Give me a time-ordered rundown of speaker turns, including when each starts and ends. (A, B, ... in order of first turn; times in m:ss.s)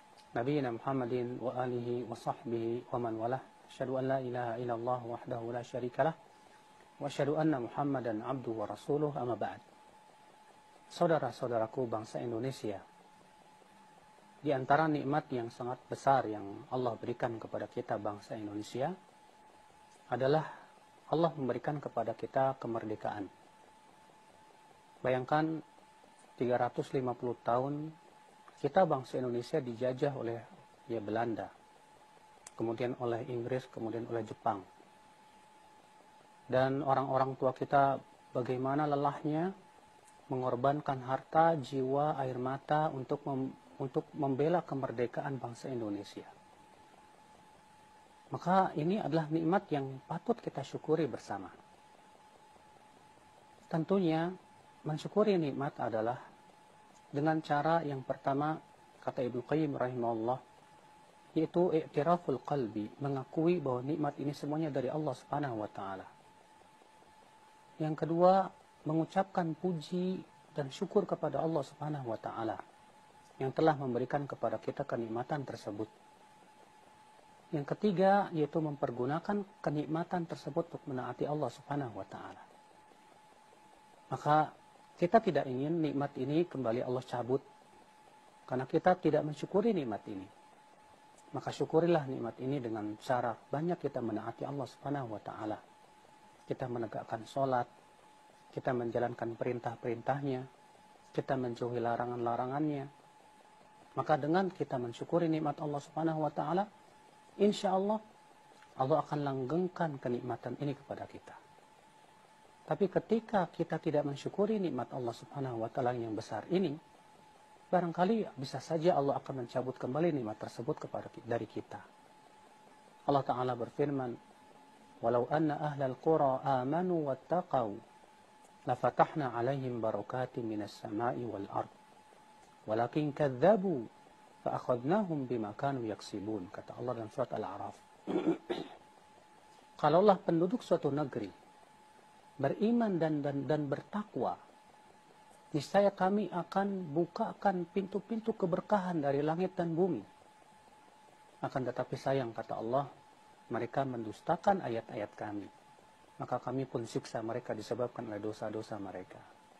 0:00.3-0:06.2 A
0:07.0-0:09.6 A
0:10.9-0:12.8 A
0:14.4-0:18.9 A
0:20.1-0:20.5 A
0:21.1-0:23.3 A
0:25.0-0:25.6 A
0:26.4-0:27.9 A
0:28.6-0:31.5 A
0:32.6-0:34.6 A
0:36.5-0:39.5 A
0:40.3-0:46.3 A
0:48.3-0:51.6 A
0:53.7-0:54.3 A
0:54.8-0:56.2 A
0:57.1-1:00.4 A
1:01.4-1:06.1 A
1:07.8-1:12.6 A
1:13.4-1:15.9 A
1:17.5-1:22.4 A
1:24.1-1:27.4 A
1:28.5-1:30.3 A
1:31.3-1:35.6 A
1:36.5-1:37.7 A
1:38.5-1:40.5 A
1:41.1-1:42.9 A
1:44.0-1:46.7 A
1:47.4-1:48.0 A
1:48.8-1:51.4 A
1:52.7-1:56.8 A
1:57.7-2:01.8 A
2:03.1-2:04.2 A
2:05.0-2:07.8 A
2:08.7-2:11.7 A
2:12.7-2:13.9 A
2:14.4-2:18.7 A
2:19.8-2:21.3 A
2:22.4-2:24.4 A
2:25.5-2:30.0 A
2:31.4-2:32.9 A
2:33.5-2:35.5 A
2:36.2-2:39.3 A